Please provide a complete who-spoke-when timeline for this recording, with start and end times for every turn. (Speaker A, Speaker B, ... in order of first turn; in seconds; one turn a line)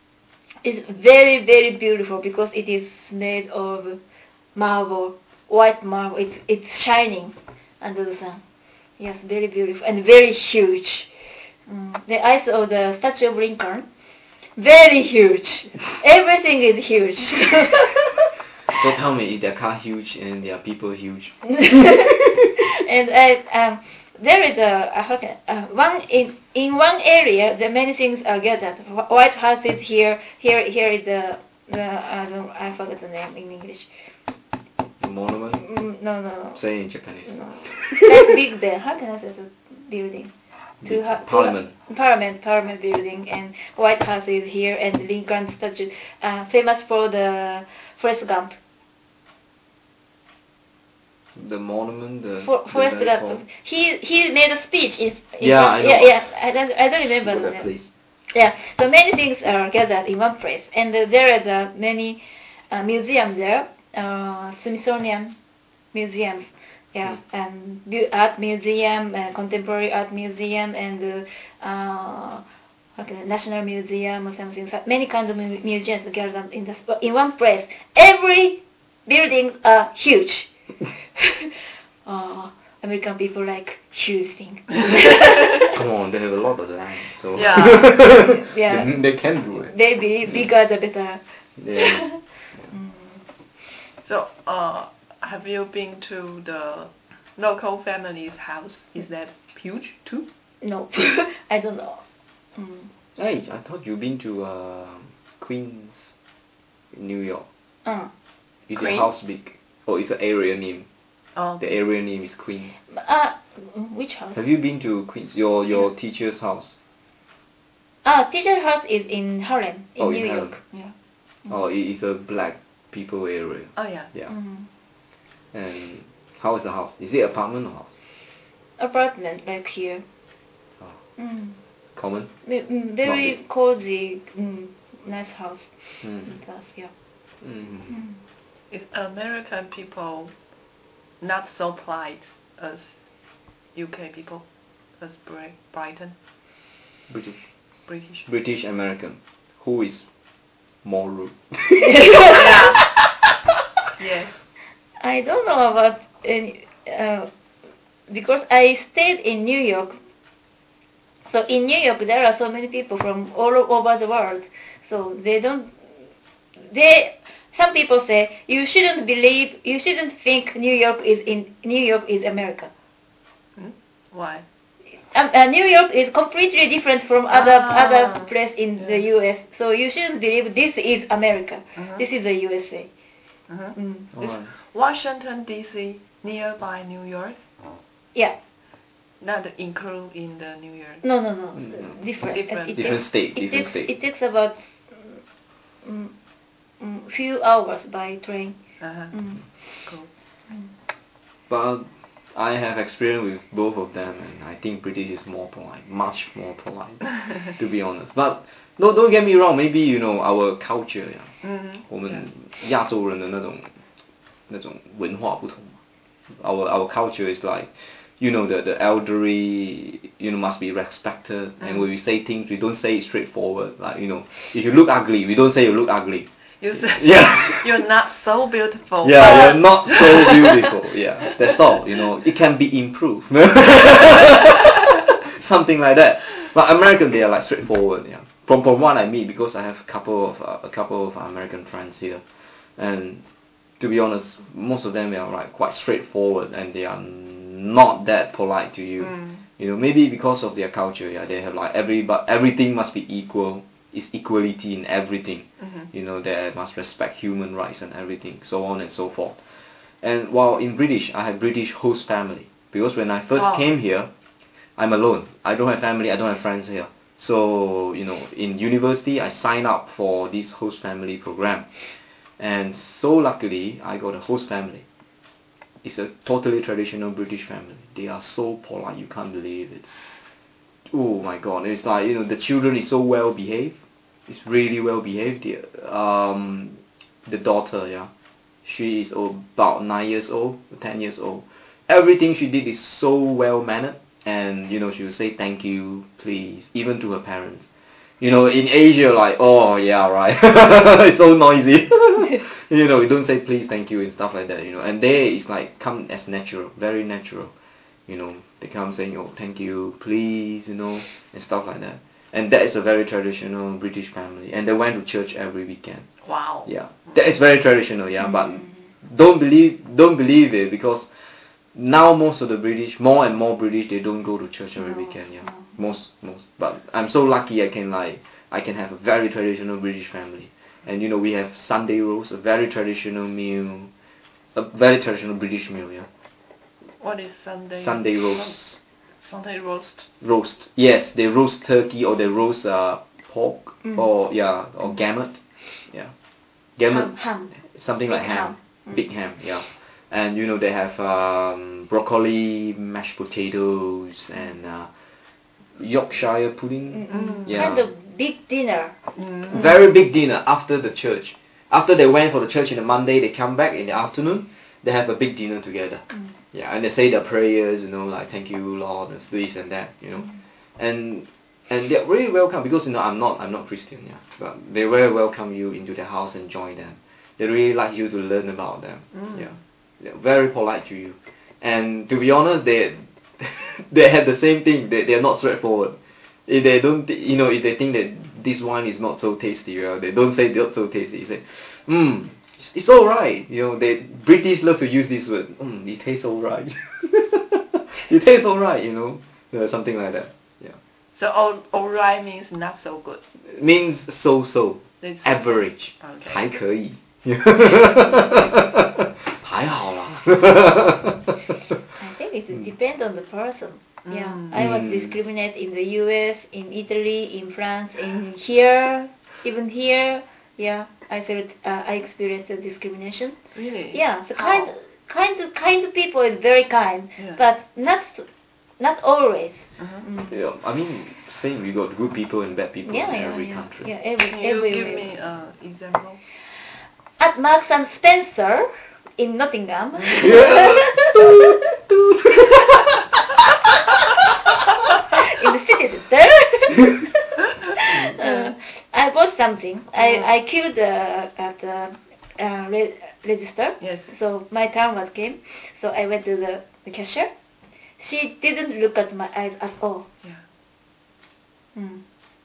Speaker A: 0.6-4.0
Speaker A: 4.5-8.4
Speaker A: 9.0-11.1
Speaker A: 11.7-13.9
Speaker A: 14.6-18.8
Speaker B: 18.7-22.1
Speaker A: 21.4-33.9
Speaker B: 35.0-35.6
Speaker A: 35.5-36.6
Speaker B: 36.5-38.3
Speaker A: 37.2-40.3
Speaker B: 40.8-41.7
Speaker A: 40.8-48.5
Speaker B: 51.4-53.4
Speaker A: 52.4-57.7
Speaker B: 55.4-56.2
Speaker B: 57.2-57.9
Speaker A: 58.3-65.4
Speaker A: 65.9-72.4
Speaker A: 73.0-80.5
Speaker A: 81.1-85.8
Speaker B: 85.7-89.7
Speaker C: 87.3-88.0
Speaker A: 88.1-93.2
Speaker B: 91.6-92.0
Speaker C: 94.0-100.3
Speaker A: 100.6-102.0
Speaker A: 102.5-102.9
Speaker B: 103.2-106.1
Speaker B: 106.9-107.5
Speaker A: 107.8-108.1
Speaker B: 108.7-110.9
Speaker C: 108.8-109.1
Speaker C: 111.4-111.7
Speaker B: 111.6-112.8
Speaker A: 112.9-114.4
Speaker B: 114.3-116.8
Speaker A: 118.0-120.9
Speaker B: 120.0-120.6
Speaker B: 121.5-124.3
Speaker C: 123.8-124.1
Speaker A: 124.3-124.7
Speaker B: 125.5-127.9
Speaker A: 128.8-130.0
Speaker A: 131.2-131.6
Speaker B: 131.9-132.3
Speaker A: 132.4-136.9
Speaker B: 133.0-133.4
Speaker B: 136.0-136.3
Speaker B: 137.4-137.9
Speaker A: 137.9-138.2
Speaker C: 138.7-140.3
Speaker C: 141.2-142.9
Speaker C: 143.7-144.4
Speaker C: 145.0-146.1
Speaker B: 147.1-147.4
Speaker C: 147.9-148.2
Speaker B: 148.2-150.1
Speaker B: 150.8-152.7
Speaker A: 151.8-152.6
Speaker C: 152.2-152.9
Speaker C: 154.0-154.3
Speaker A: 155.0-157.3
Speaker A: 158.1-160.0
Speaker A: 161.3-165.9
Speaker A: 166.6-172.7
Speaker C: 173.6-174.4
Speaker A: 174.9-182.9
Speaker C: 177.3-179.1
Speaker C: 181.8-182.0
Speaker C: 183.5-187.4
Speaker A: 183.7-184.1
Speaker B: 184.2-184.5
Speaker C: 189.2-191.0
Speaker A: 191.0-195.2
Speaker B: 191.6-191.9
Speaker C: 192.3-193.0
Speaker B: 192.7-193.9
Speaker A: 195.8-196.1
Speaker A: 196.8-198.6
Speaker C: 198.8-199.1
Speaker A: 199.1-199.9
Speaker B: 201.5-211.3
Speaker C: 211.4-212.2
Speaker B: 211.8-213.8
Speaker B: 214.5-215.8
Speaker B: 216.3-227.8
Speaker C: 226.6-231.3
Speaker B: 229.0-242.2
Speaker B: 242.8-243.2
Speaker B: 243.8-264.1
Speaker C: 249.0-249.4
Speaker C: 255.6-255.9
Speaker C: 263.4-263.7
Speaker B: 264.8-274.9
Speaker B: 275.8-279.9
Speaker B: 280.9-288.1
Speaker B: 288.6-297.7
Speaker B: 298.2-307.5
Speaker B: 308.1-316.1
Speaker C: 316.2-317.1
Speaker B: 316.6-333.9
Speaker A: 324.8-325.7
Speaker B: 334.5-336.1
Speaker C: 337.0-338.6
Speaker B: 337.8-338.8
Speaker C: 339.2-340.1
Speaker B: 340.2-346.1
Speaker B: 346.8-354.9
Speaker A: 346.9-347.5
Speaker A: 348.1-348.9
Speaker B: 355.8-357.9
Speaker A: 356.9-358.9
Speaker C: 357.1-357.6
Speaker C: 359.2-359.5
Speaker B: 359.4-400.8
Speaker C: 379.1-379.5
Speaker C: 401.1-403.2
Speaker B: 403.4-411.3
Speaker C: 405.0-406.5
Speaker A: 412.0-423.4
Speaker C: 414.1-414.6
Speaker B: 414.5-415.1
Speaker C: 423.5-424.7
Speaker A: 423.9-428.2
Speaker A: 428.8-430.3
Speaker B: 430.3-433.9
Speaker A: 432.9-435.1
Speaker C: 434.2-436.2
Speaker A: 437.2-441.6
Speaker B: 440.1-443.1
Speaker A: 445.2-457.3
Speaker C: 453.8-454.1
Speaker A: 458.0-460.1
Speaker A: 461.7-462.0